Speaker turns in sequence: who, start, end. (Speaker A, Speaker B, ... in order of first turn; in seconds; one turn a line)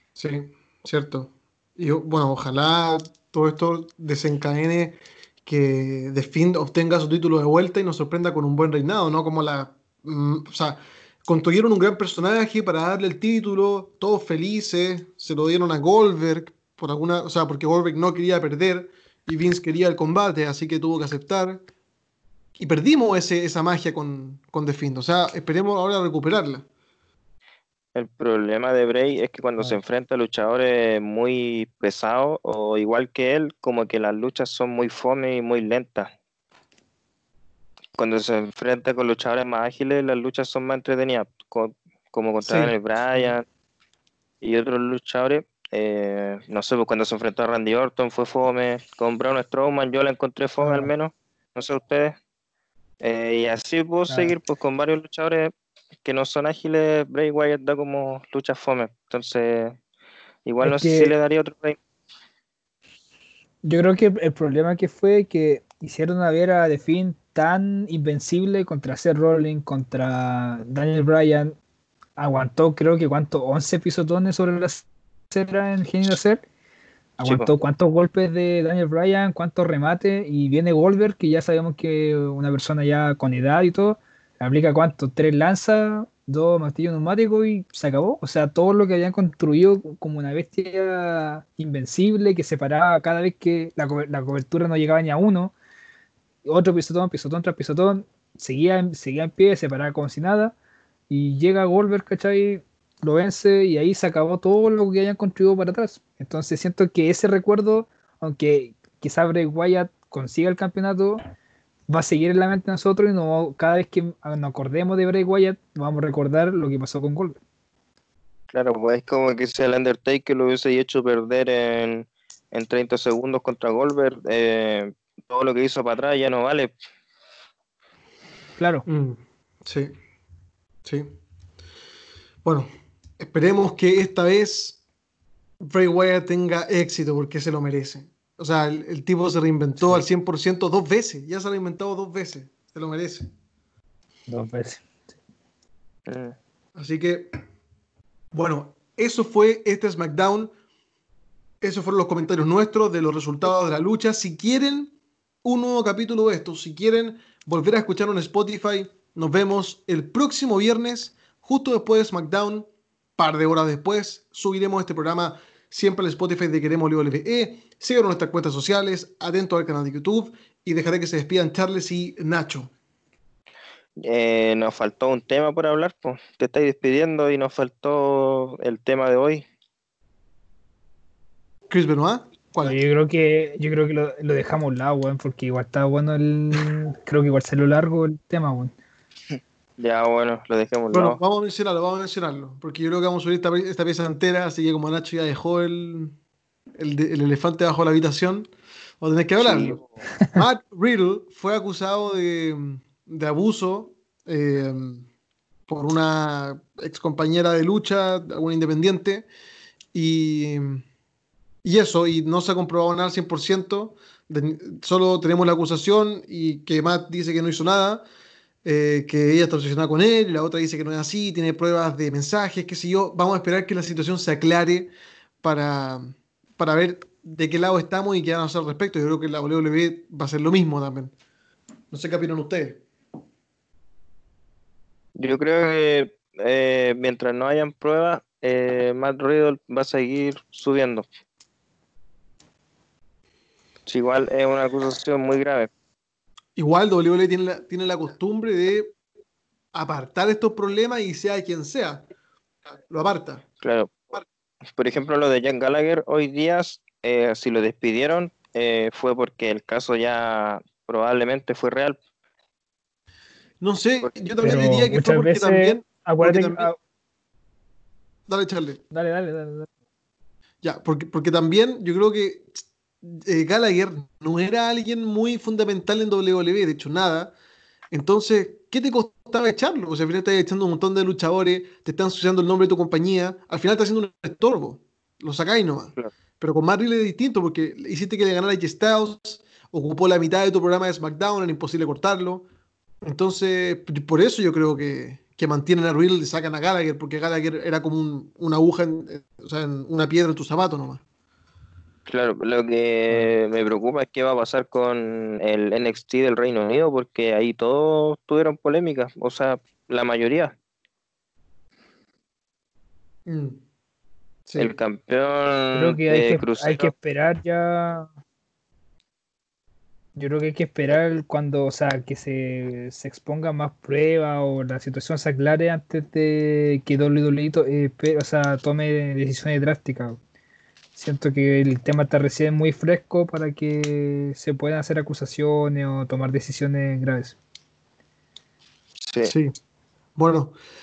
Speaker A: 0.2-21.6
Speaker A: 22.6-26.7
Speaker B: 27.9-36.1
Speaker B: 38.0-43.4
Speaker A: 42.5-42.7
Speaker B: 44.4-52.2
Speaker C: 50.6-50.9
Speaker B: 53.0-55.5
Speaker C: 54.1-54.4
Speaker B: 56.0-59.8
Speaker B: 60.5-61.8
Speaker C: 60.6-61.1
Speaker C: 63.6-71.6
Speaker C: 72.2-76.4
Speaker C: 77.2-95.5
Speaker B: 77.2-77.5
Speaker C: 96.5-100.5
Speaker C: 101.1-111.2
Speaker C: 111.9-117.4
Speaker B: 118.5-126.7
Speaker C: 128.6-128.8
Speaker A: 128.9-129.9
Speaker A: 130.8-131.1
Speaker A: 133.2-134.8
Speaker A: 135.6-143.3
Speaker C: 144.3-144.8
Speaker B: 146.1-146.4
Speaker A: 146.8-147.3
Speaker A: 148.3-150.5
Speaker A: 151.6-172.7
Speaker B: 174.0-179.5
Speaker A: 181.7-182.8
Speaker C: 182.6-188.7
Speaker B: 189.3-191.2
Speaker A: 190.9-196.1
Speaker A: 196.8-199.8
Speaker B: 199.4-200.0
Speaker A: 200.3-205.0
Speaker A: 205.7-209.3
Speaker A: 209.9-210.8
Speaker A: 211.6-218.1
Speaker A: 218.6-224.9
Speaker A: 225.4-231.1
Speaker A: 231.9-232.8
Speaker B: 235.2-241.1
Speaker B: 243.9-245.7
Speaker A: 246.6-248.9
Speaker A: 249.7-252.1
Speaker A: 252.9-253.4
Speaker B: 253.6-254.2
Speaker B: 254.8-262.0
Speaker A: 263.6-266.7
Speaker C: 264.4-266.8
Speaker A: 268.3-268.8
Speaker C: 268.9-269.7
Speaker A: 270.6-277.4
Speaker A: 277.9-292.5
Speaker A: 293.0-301.0
Speaker B: 302.1-310.5
Speaker A: 313.3-313.6
Speaker A: 314.5-314.7
Speaker B: 314.6-316.9
Speaker C: 315.7-318.1
Speaker C: 320.2-330.2
Speaker C: 330.9-337.4
Speaker B: 339.1-339.4
Speaker A: 339.2-339.6
Speaker A: 340.2-340.6